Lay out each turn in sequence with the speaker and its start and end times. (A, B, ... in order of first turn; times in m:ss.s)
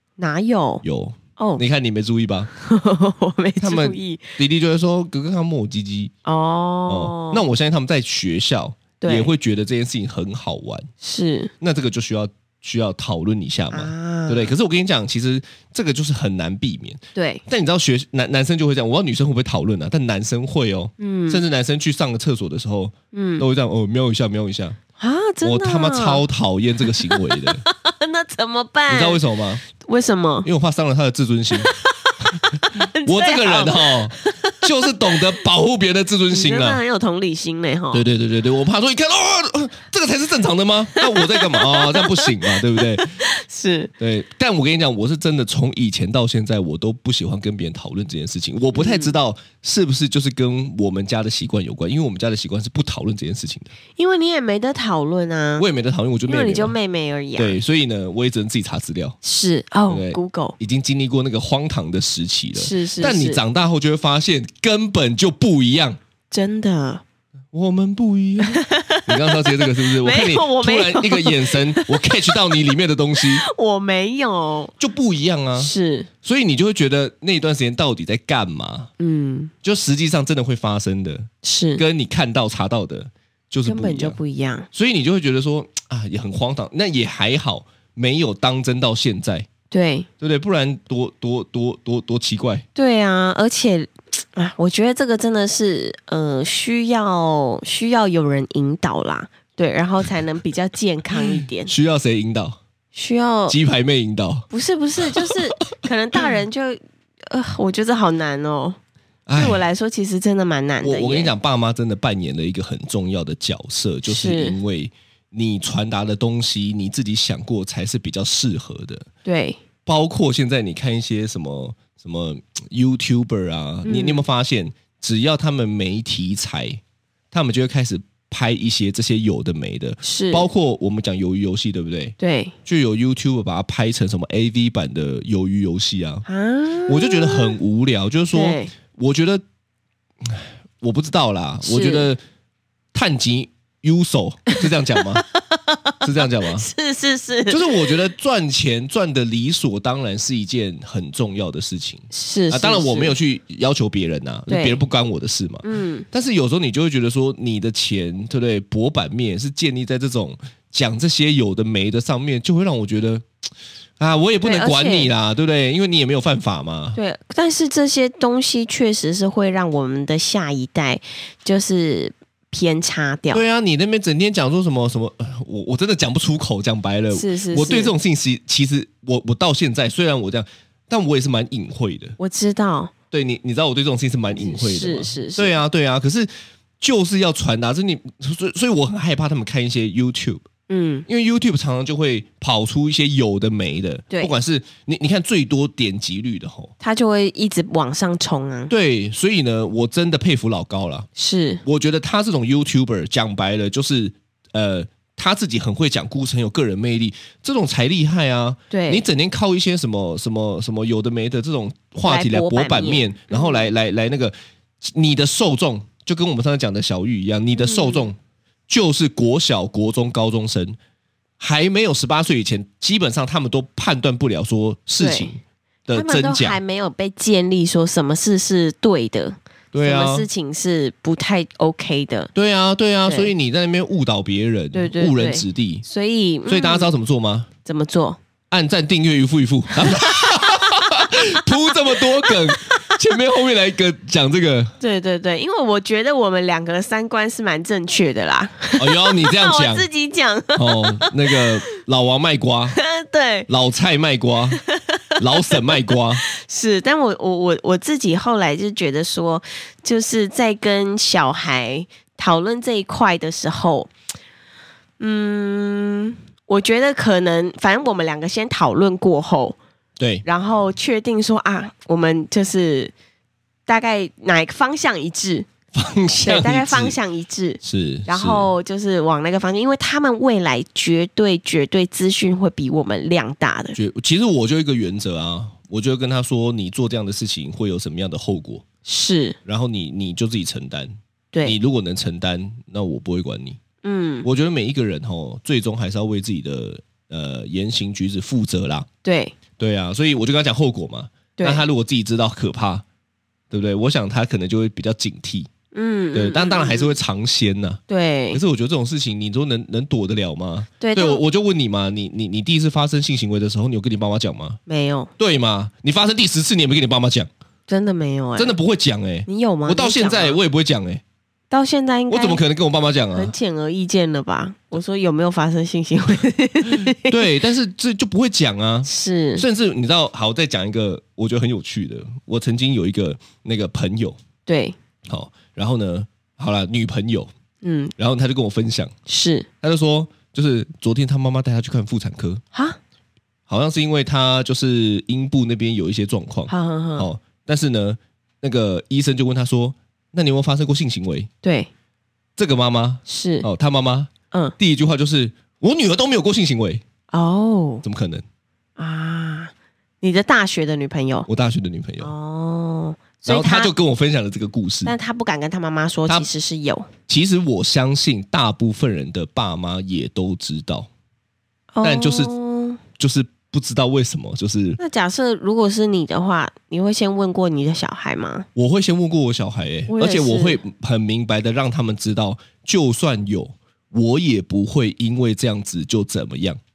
0:00.2-0:00.8 A
0:00.8-0:02.5 B
0:01.4-0:01.6 A
0:02.5-0:04.4 A
0:03.6-0:06.1 B
0:06.2-0:07.4 A
0:06.9-0:10.9 B
0:09.0-0:09.3 A
0:11.0-0:11.5 A
0:11.6-0:24.8 B
0:13.7-0:14.5 A
0:17.1-0:17.4 A
0:21.0-0:21.4 A
0:23.1-0:23.4 A
0:25.0-0:26.2 A
0:25.4-0:27.6 B
0:26.9-0:30.5 A
0:28.9-0:29.6 B
0:30.4-0:31.7 B
0:31.5-0:35.2 A
0:32.4-0:36.8 B
0:36.3-0:38.0 A
0:37.9-0:43.1 B
0:41.0-0:43.9 A
0:44.0-0:53.7 B
0:48.7-0:49.1 A
0:54.0-0:55.6 A
0:55.6-0:56.7 B
0:56.3-0:57.6 A
0:57.4-0:59.2 B
0:59.2-1:00.6 A
0:59.9-1:06.0 B
1:02.5-1:03.4 A
1:06.3-1:07.0 A
1:07.5-1:13.4 B
1:08.4-1:12.0 A
1:13.2-1:14.7 A
1:14.8-1:15.7 B
1:15.6-1:16.1 A
1:16.2-1:18.9 B
1:19.0-1:19.5 A
1:19.6-1:24.2 B
1:21.4-1:21.8 A
1:23.6-1:24.7 A
1:24.7-1:29.5 B
1:29.7-1:30.1 A
1:30.2-1:32.6 B
1:32.7-1:41.7 A
1:41.1-1:42.6 B
1:42.9-1:43.6 A
1:43.5-1:44.5 B
1:44.5-1:48.8 A
1:45.0-1:45.4 B
1:49.3-1:49.6 B
1:49.3-1:51.3 A
1:50.8-1:59.0 B
1:54.0-1:54.6 A
1:59.2-1:59.6 A
1:59.8-2:06.8 B
2:03.8-2:04.2 A
2:07.3-2:12.1 B
2:10.0-2:10.5 A
2:12.2-2:12.5 A
2:12.6-2:16.2 B
2:16.2-2:17.6 A
2:16.9-2:19.4 B
2:18.3-2:18.7 A
2:20.2-2:22.2 B
2:21.6-2:22.1 A
2:22.9-2:25.2 B
2:24.6-2:28.0 A
2:26.0-2:26.7 B
2:27.5-2:43.2 B
2:32.1-2:33.1 A
2:34.5-2:34.8 A
2:35.6-2:36.0 A
2:44.0-2:47.0 B
2:44.4-2:45.1 A
2:46.9-2:53.4 A
2:53.3-3:02.2 B
2:57.1-2:57.9 A
3:02.2-3:02.9 A
3:03.1-3:10.4 B
3:04.3-3:05.6 A
3:10.7-3:11.0 A
3:11.1-3:16.7 B
3:16.8-3:18.7 A
3:18.7-3:21.1 B
3:21.2-3:21.6 A
3:21.6-3:38.2 B
3:28.7-3:29.0 A
3:32.0-3:33.7 A
3:37.6-3:38.1 A
3:38.7-3:40.8 B
3:41.4-3:46.6 B
3:45.0-3:45.3 A
3:45.9-3:52.3 A
3:49.7-3:50.3 B
3:52.3-3:55.8 B
3:53.0-3:53.3 A
3:54.7-3:56.9 A
3:56.5-3:57.5 B
3:57.6-3:58.2 A
3:58.5-4:04.7 B
3:59.8-4:02.9 A
4:04.8-4:11.5 A
4:08.8-4:09.9 B
4:10.6-4:12.8 B
4:12.7-4:13.5 A
4:13.5-4:14.6 B
4:14.7-4:23.9 A
4:15.2-4:16.2 B
4:25.0-4:29.6 A
4:30.0-4:30.2 B
4:30.2-4:32.9 A
4:33.7-4:35.5 A
4:35.7-4:37.0 B
4:36.2-4:43.8 A
4:37.6-4:38.5 B
4:43.7-4:48.6 B
4:48.8-4:49.4 A
4:49.4-4:53.6 B
4:53.8-4:54.3 A
4:54.2-4:58.9 B
4:59.0-4:59.3 A
4:59.6-5:02.8 B
5:01.4-5:01.6 A
5:03.5-5:05.5 B
5:05.7-5:07.0 A
5:06.1-5:07.8 B
5:07.9-5:08.4 A
5:08.3-5:14.6 B
5:10.8-5:11.2 A
5:14.7-5:15.1 A
5:15.2-5:17.3 B
5:17.7-5:18.6 A
5:18.4-5:21.0 B
5:19.2-5:20.4 A
5:21.5-5:22.4 A
5:22.1-5:23.3 B
5:23.1-5:27.2 A
5:26.8-5:34.2 B
5:28.8-5:29.4 A
5:34.4-5:34.8 A
5:35.0-5:37.3 B
5:37.6-5:37.9 A
5:38.0-5:38.9 B
5:39.1-5:39.5 A
5:39.6-5:42.4 B
5:42.5-5:42.8 A
5:43.5-5:51.3 B
5:46.5-5:47.1 A
5:51.4-5:51.7 A
5:52.4-5:56.8 B
5:53.0-5:53.5 A
5:57.1-5:57.8 A
5:57.8-5:58.2 B
5:58.8-6:01.3 A
6:01.3-6:02.1 B
6:02.0-6:03.7 A
6:03.2-6:05.0 B
6:04.8-6:06.9 A
6:07.1-6:10.9 B
6:11.7-6:12.8 A
6:11.8-6:12.3 B
6:13.0-6:14.8 B
6:14.8-6:18.4 A
6:18.5-6:26.6 B
6:19.9-6:20.6 A